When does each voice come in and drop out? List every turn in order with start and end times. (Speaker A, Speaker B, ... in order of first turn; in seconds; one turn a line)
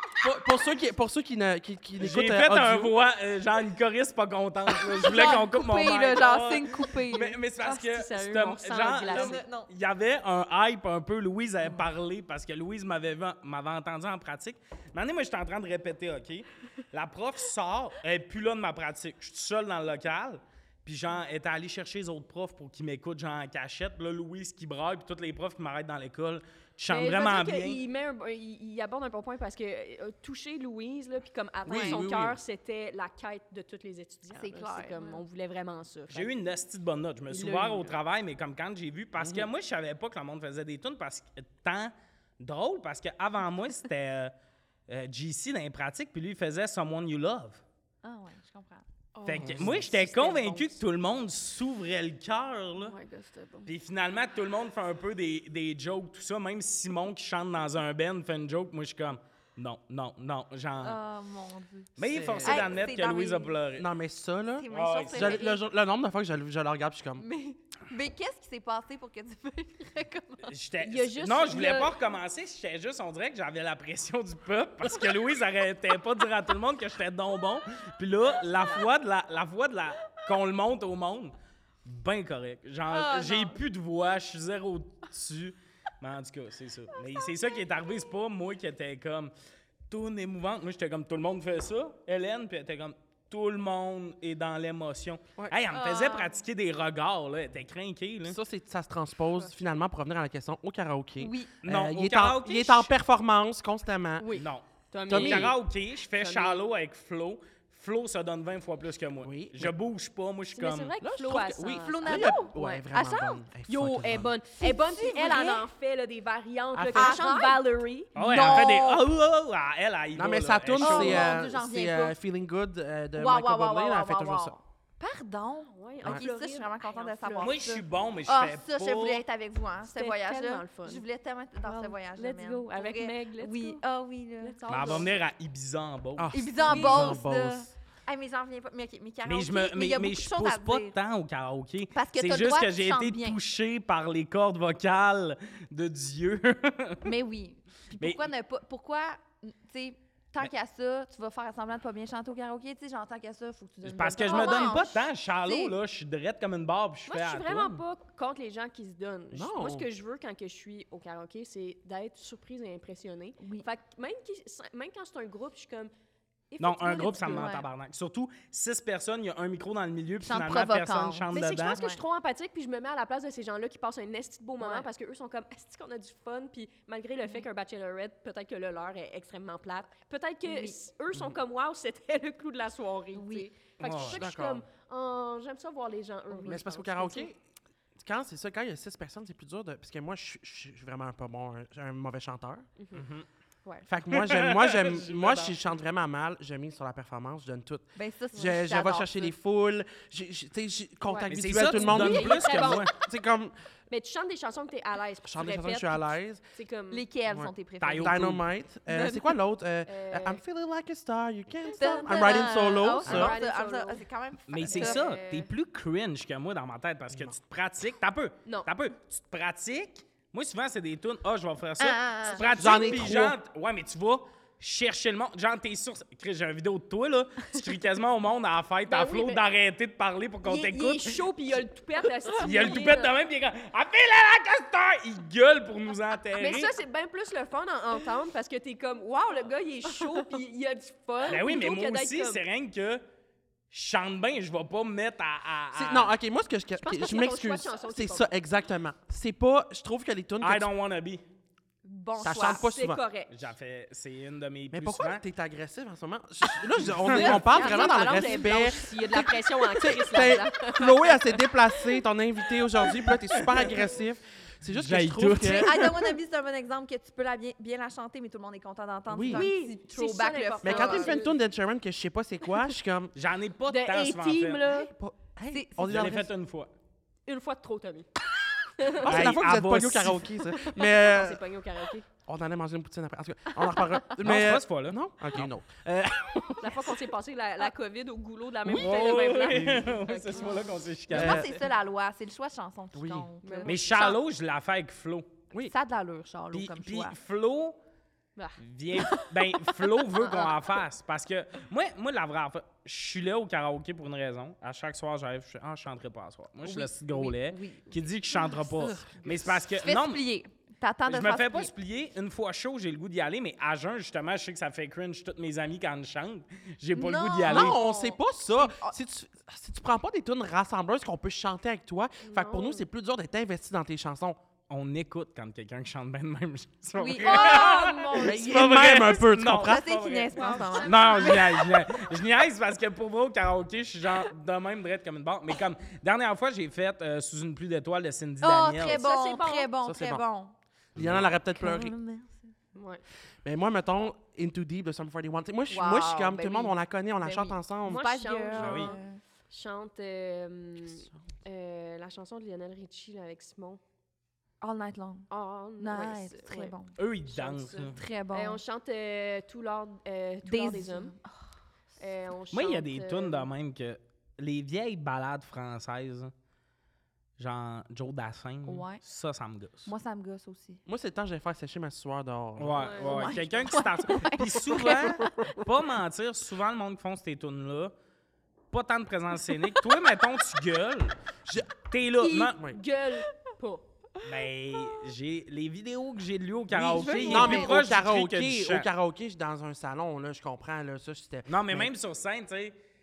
Speaker A: 0.2-2.9
Speaker B: 2.0-27.8
Speaker C: 4.9-7.4
Speaker D: 7.6-9.4
Speaker C: 9.1-9.7
Speaker D: 26.9-36.3
Speaker A: 31.7-32.4
Speaker C: 31.7-32.1
Speaker C: 34.3-35.2
Speaker B: 36.1-44.3
Speaker D: 37.3-38.0
Speaker A: 39.2-39.5
Speaker B: 44.9-47.6
Speaker C: 48.0-48.9
Speaker D: 49.1-50.8
Speaker B: 49.2-53.0
Speaker A: 49.3-49.8
Speaker D: 52.8-53.7
Speaker B: 53.6-61.0
Speaker C: 60.8-63.5
Speaker B: 62.0-63.9
Speaker A: 62.0-62.9
Speaker A: 63.8-67.2
Speaker C: 64.6-65.6
Speaker B: 64.7-65.5
Speaker C: 67.2-70.5
Speaker B: 70.5-81.3
Speaker D: 70.8-72.0
Speaker D: 78.5-78.8
Speaker B: 81.9-89.3
Speaker C: 82.9-83.6
Speaker B: 89.9-98.4
Speaker C: 95.7-96.4
Speaker A: 98.3-104.5
Speaker C: 101.2-101.5
Speaker B: 101.6-102.9
Speaker D: 104.2-105.6
Speaker B: 104.3-110.9
Speaker A: 105.1-105.5
Speaker D: 106.1-106.7
Speaker A: 109.2-109.7
Speaker D: 110.5-112.8
Speaker A: 111.0-114.3
Speaker C: 111.8-113.4
Speaker D: 113.7-118.1
Speaker C: 114.6-115.7
Speaker A: 116.7-117.3
Speaker C: 116.9-117.6
Speaker C: 118.2-119.1
Speaker B: 118.2-121.3
Speaker A: 118.3-118.6
Speaker A: 120.2-124.5
Speaker C: 120.8-122.2
Speaker C: 123.2-135.1
Speaker D: 125.7-127.6
Speaker B: 127.4-129.2
Speaker D: 129.8-131.0
Speaker D: 131.6-133.8
Speaker D: 134.4-135.2
Speaker B: 134.7-136.4
Speaker A: 136.2-137.7
Speaker C: 136.3-141.0
Speaker D: 136.7-137.2
Speaker B: 139.3-147.1
Speaker C: 141.9-143.4
Speaker C: 147.1-155.8
Speaker B: 148.0-148.3
Speaker B: 153.8-157.8
Speaker D: 154.0-154.8
Speaker D: 157.1-165.9
Speaker A: 159.3-159.9
Speaker C: 163.4-163.7
Speaker D: 166.5-167.5
Speaker B: 166.6-171.8
Speaker C: 167.0-167.7
Speaker C: 170.2-172.0
Speaker D: 171.3-187.3
Speaker C: 174.6-174.9
Speaker C: 180.4-180.8
Speaker C: 183.2-183.5
Speaker B: 183.8-184.3
Speaker A: 183.9-184.7
Speaker A: 186.4-187.4
Speaker A: 188.0-192.7
Speaker D: 192.8-193.1
Speaker B: 192.9-193.3
Speaker A: 193.9-203.6
Speaker B: 194.1-195.6
Speaker C: 197.9-199.3
Speaker D: 201.0-203.0
Speaker B: 201.3-202.9
Speaker D: 203.9-207.1
Speaker A: 205.2-206.4
Speaker C: 206.9-208.4
Speaker A: 207.3-213.3
Speaker B: 207.8-208.4
Speaker D: 208.9-209.2
Speaker C: 208.9-209.2
Speaker D: 209.9-210.4
Speaker D: 211.6-214.0
Speaker C: 211.8-215.4
Speaker B: 214.5-231.2
Speaker D: 214.6-215.5
Speaker A: 217.1-217.4
Speaker C: 221.8-223.2
Speaker A: 222.5-223.4
Speaker D: 228.9-229.4
Speaker D: 230.4-233.1
Speaker B: 232.4-236.7
Speaker D: 236.4-242.4
Speaker B: 241.2-243.1
Speaker B: 243.7-246.2
Speaker A: 245.8-250.7
Speaker D: 246.8-248.3
Speaker B: 250.4-251.2
Speaker C: 251.8-252.7
Speaker A: 252.2-253.0
Speaker D: 252.2-253.5
Speaker B: 253.3-255.2
Speaker A: 254.7-265.9
Speaker C: 257.1-258.7
Speaker D: 257.1-262.0
Speaker B: 263.3-263.6
Speaker B: 264.7-266.1
Speaker C: 265.4-271.2
Speaker A: 269.1-269.5
Speaker D: 269.2-271.4
Speaker A: 270.6-273.1
Speaker B: 273.1-274.6
Speaker D: 273.7-274.9
Speaker A: 274.7-276.3
Speaker C: 275.5-276.2
Speaker B: 275.8-276.7
Speaker D: 277.3-278.1
Speaker A: 278.9-281.4
Speaker B: 279.0-280.4
Speaker D: 280.6-282.1
Speaker A: 282.2-286.9
Speaker B: 284.2-285.5
Speaker D: 286.6-290.8
Speaker B: 288.6-291.6
Speaker A: 289.5-289.8
Speaker C: 290.4-294.1
Speaker A: 291.1-291.6
Speaker A: 292.9-293.3
Speaker D: 293.4-294.2
Speaker B: 293.6-295.3
Speaker C: 295.6-297.2
Speaker B: 296.5-297.8
Speaker D: 298.4-299.2
Speaker B: 298.6-310.2
Speaker D: 300.1-300.8
Speaker C: 306.6-308.6
Speaker A: 308.6-309.7
Speaker C: 309.8-311.7
Speaker B: 311.1-317.8
Speaker C: 316.9-318.9
Speaker A: 317.5-324.4
Speaker D: 322.2-322.9
Speaker B: 324.7-339.0
Speaker C: 326.9-331.9
Speaker D: 327.4-327.9
Speaker A: 328.2-329.8
Speaker D: 330.3-331.5
Speaker C: 338.4-340.5
Speaker D: 338.9-339.8
Speaker A: 339.9-340.2
Speaker B: 340.9-341.3
Speaker A: 340.9-341.9
Speaker C: 341.5-342.5
Speaker D: 342.8-343.0
Speaker A: 343.4-348.1
Speaker C: 345.7-349.2
Speaker D: 347.9-353.8
Speaker B: 348.6-348.9
Speaker C: 354.6-356.9
Speaker D: 355.3-356.8
Speaker B: 357.0-358.0
Speaker D: 357.3-361.1
Speaker C: 357.9-358.6
Speaker C: 360.4-361.4
Speaker D: 362.0-363.5
Speaker B: 362.5-366.3
Speaker B: 367.4-369.9
Speaker C: 368.6-369.0
Speaker C: 369.9-370.8
Speaker A: 370.9-373.2
Speaker B: 372.6-377.9
Speaker D: 372.8-373.4
Speaker C: 373.0-375.6
Speaker B: 378.7-382.6
Speaker D: 382.2-383.9
Speaker B: 384.2-388.9
Speaker C: 386.7-387.8
Speaker A: 386.9-391.9
Speaker B: 391.5-392.8